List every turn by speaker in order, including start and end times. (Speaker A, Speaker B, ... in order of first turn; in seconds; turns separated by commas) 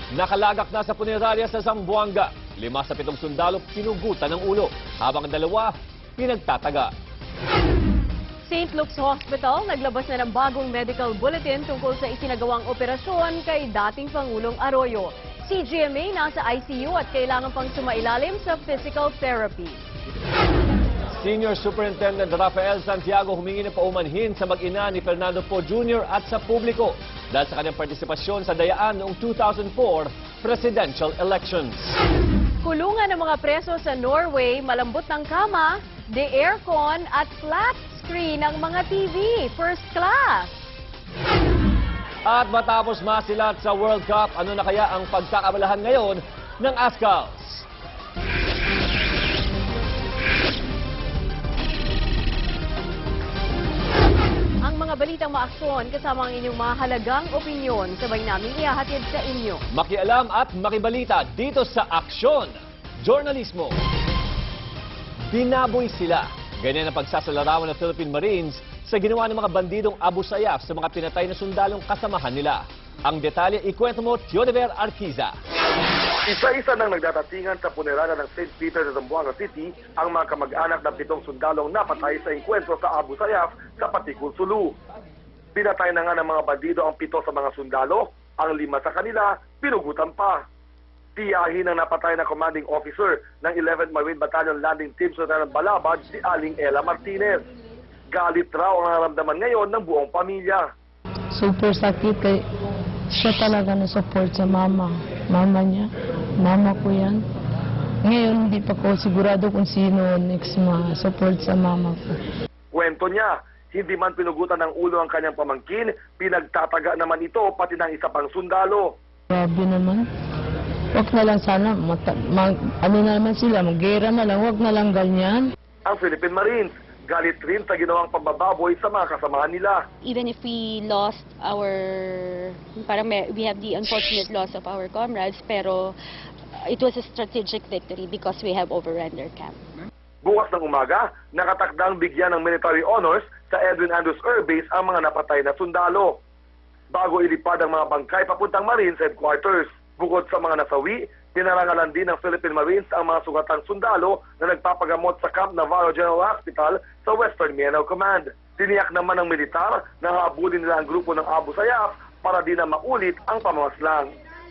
Speaker A: 0.1-6.9, Speaker B: 8.4-19.8, Speaker A: 21.1-32.0, Speaker B: 32.6-40.5, Speaker A: 42.3-47.7, Speaker B: 54.6-59.6, Speaker A: 59.7-63.8, Speaker A: 65.3-75.3, Speaker C: 76.3-84.8, Speaker C: 85.5-90.4, Speaker C: 91.2-97.4, Speaker C: 98.1-100.7, Speaker D: 101.3-102.4, Speaker D: 103.1-107.2, Speaker D: 108.0-112.0, Speaker C: 112.7-119.0, Speaker D: 119.3-120.0, Speaker D: 121.0-125.5, Speaker C: 125.9-129.8, Speaker E: 130.0-136.0, Speaker E: 136.6-139.6, Speaker C: 140.2-146.2, Speaker C: 146.9-164.1